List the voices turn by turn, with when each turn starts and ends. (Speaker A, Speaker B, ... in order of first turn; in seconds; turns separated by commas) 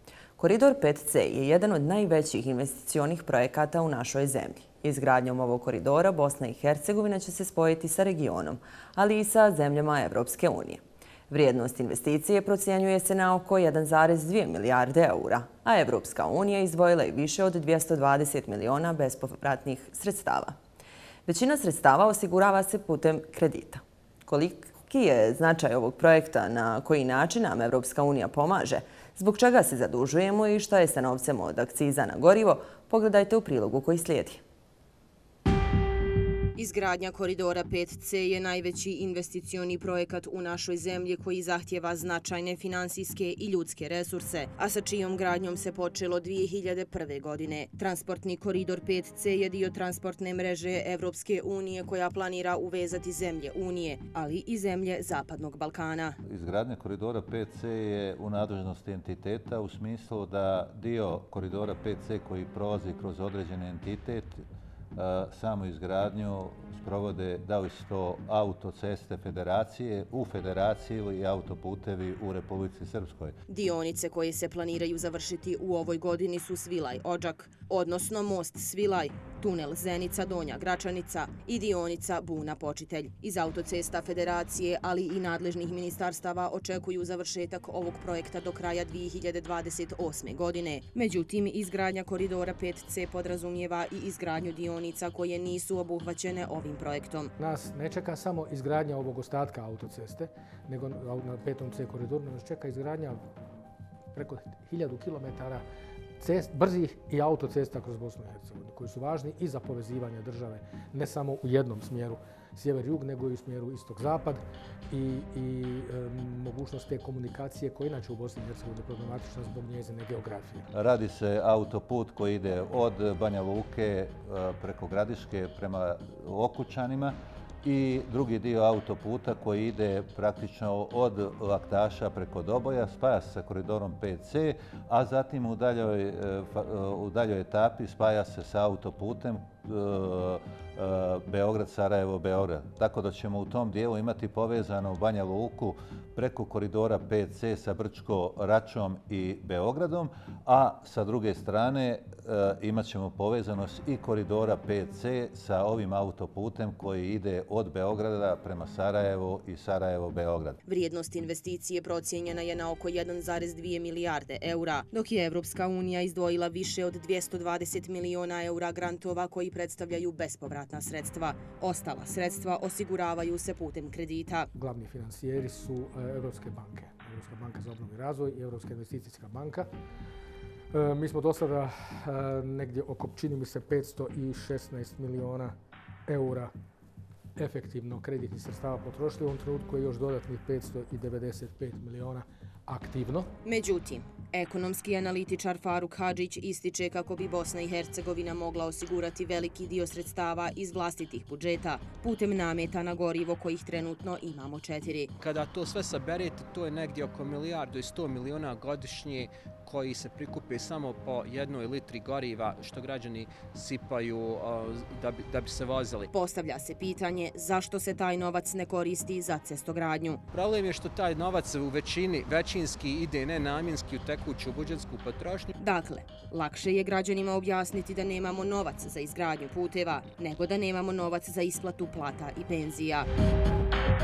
Speaker A: 0.4-20.6, Speaker A: 21.2-34.4, Speaker B: 36.5-56.2, Speaker C: 56.2-73.4, Speaker B: 73.5-97.3, Speaker D: 97.4-103.2, Speaker D: 104.1-105.6, Speaker D: 106.2-120.7, Speaker C: 120.7-160.6, Speaker B: 160.7-174.5, Speaker D: 174.5-179.7, Speaker D: 180.7-185.5, Speaker D: 186.1-186.5, Speaker D: 187.3-193.3, Speaker B: 193.4-205.1, Speaker E: 205.2-216.0, Speaker B: 216.1-220.2, Speaker E: 220.3-225.5, Speaker B: 225.6-233.1